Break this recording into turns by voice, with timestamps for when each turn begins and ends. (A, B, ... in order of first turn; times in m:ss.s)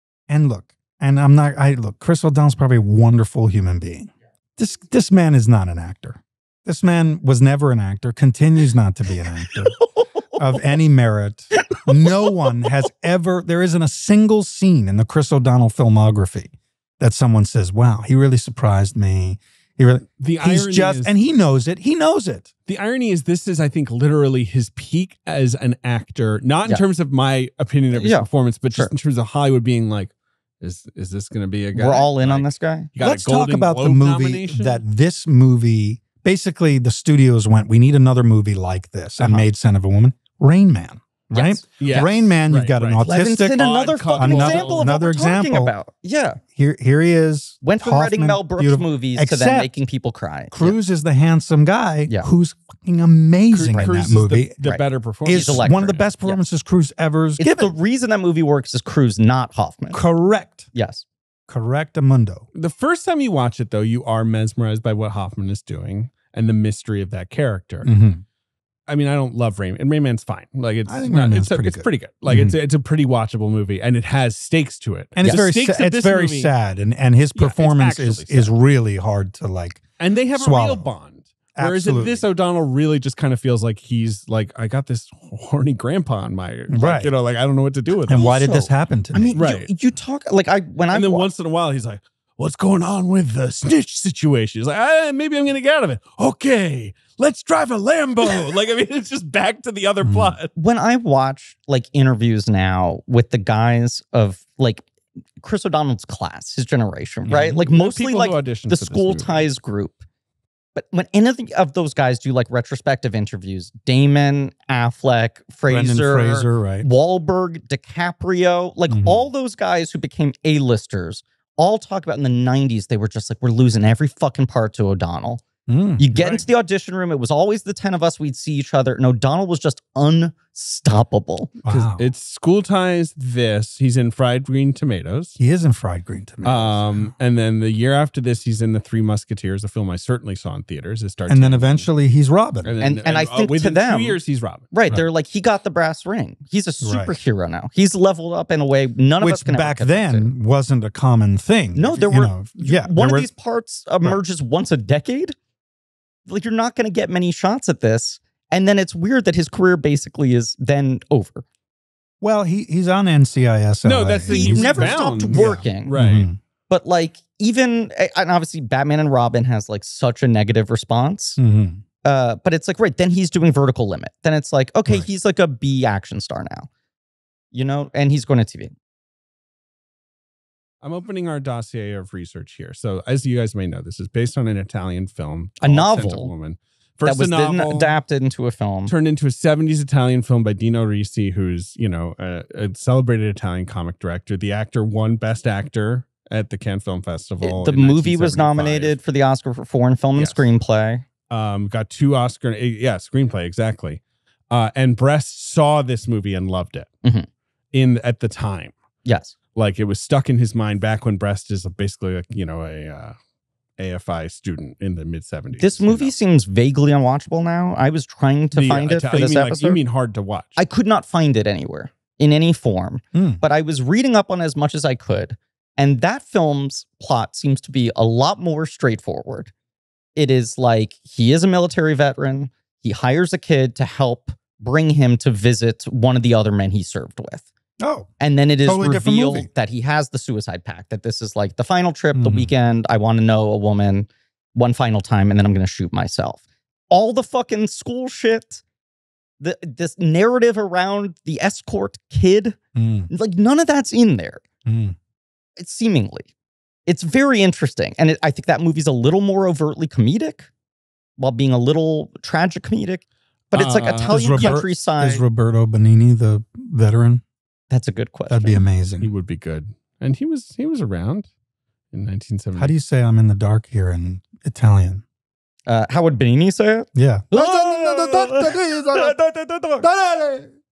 0:00.3-0:09.8 A
0:09.8-0:10.4 B
0:10.4-0:22.5 A
0:11.5-0:12.1 B
0:20.2-0:21.1 C
0:22.7-0:34.8 C
0:27.9-0:28.9 B
0:31.7-0:32.9 B
0:33.0-0:43.6 A
0:41.3-0:42.1 B
0:41.8-0:44.9 C
0:43.0-0:46.4 B
0:44.2-0:45.7 A
0:46.5-0:49.7 A
0:47.6-0:50.8 B
0:50.5-0:54.5 A
0:53.5-0:55.7 C
0:54.6-0:56.4 B
0:55.2-0:57.7 A
0:57.4-1:00.0 B
0:59.9-1:00.7 A
1:00.7-1:01.0 B
1:01.5-1:02.4 A
1:02.5-1:07.9 C
1:07.8-1:08.2 A
1:08.9-1:16.5 C
1:10.9-1:12.6 A
1:15.2-1:19.8 A
1:17.4-1:18.5 C
1:20.0-1:28.3 C
1:20.3-1:20.9 A
1:21.6-1:22.2 A
1:26.7-1:27.1 A
1:28.1-1:29.4 A
1:28.1-1:31.3 B
1:29.4-1:29.7 C
1:30.9-1:40.5 C
1:40.0-1:40.4 A
1:40.5-1:44.8 B
1:45.4-1:50.0 B
1:47.3-1:47.6 A
1:47.3-1:49.4 C
1:50.7-2:05.4 B
1:55.7-1:56.9 A
1:58.9-1:59.2 A
2:05.7-2:06.1 A
2:06.0-2:11.6 B
2:06.1-2:06.4 C
2:11.6-2:12.0 A
2:11.7-2:15.4 C
2:15.4-2:17.1 A
2:16.4-2:21.8 C
2:21.3-2:22.7 A
2:22.6-2:24.8 C
2:22.8-2:24.2 B
2:24.7-2:30.3 B
2:26.8-2:27.1 A
2:29.2-2:33.3 A
2:31.7-2:35.3 B
2:36.3-2:41.4 B
2:42.2-2:46.4 A
2:43.8-2:46.3 C
2:44.3-2:45.9 B
2:46.7-2:51.4 B
2:51.4-2:51.8 A
2:52.0-2:56.7 B
2:57.5-2:58.7 B
3:00.8-3:08.0 C
3:05.6-3:06.3 B
3:07.0-3:08.9 B
3:08.9-3:19.0 C
3:17.4-3:21.0 B
3:20.1-3:20.5 C
3:21.3-3:26.9 C
3:27.7-3:28.7 C
3:29.0-3:29.3 B
3:29.5-3:33.2 C
3:33.8-3:36.1 C
3:35.6-3:39.8 B
3:38.5-3:40.6 C
3:40.6-3:49.5 B
3:43.1-3:43.4 A
3:50.2-3:57.5 B
3:57.8-3:58.1 A
3:58.2-4:08.6 B
3:58.6-3:59.5 A
4:02.1-4:02.5 A
4:09.4-4:12.6 B
4:12.7-4:13.1 A
4:13.1-4:14.4 B
4:14.6-4:15.0 A
4:15.6-4:16.3 B
4:16.9-4:20.5 B
4:21.2-4:25.2 B
4:23.5-4:24.6 C
4:24.0-4:27.2 A
4:27.7-4:28.6 B
4:28.3-4:29.1 A
4:29.0-4:31.3 C
4:31.9-4:32.7 C
4:32.6-4:35.0 A
4:35.7-4:39.9 B
4:36.9-4:39.2 A
4:39.8-4:40.5 A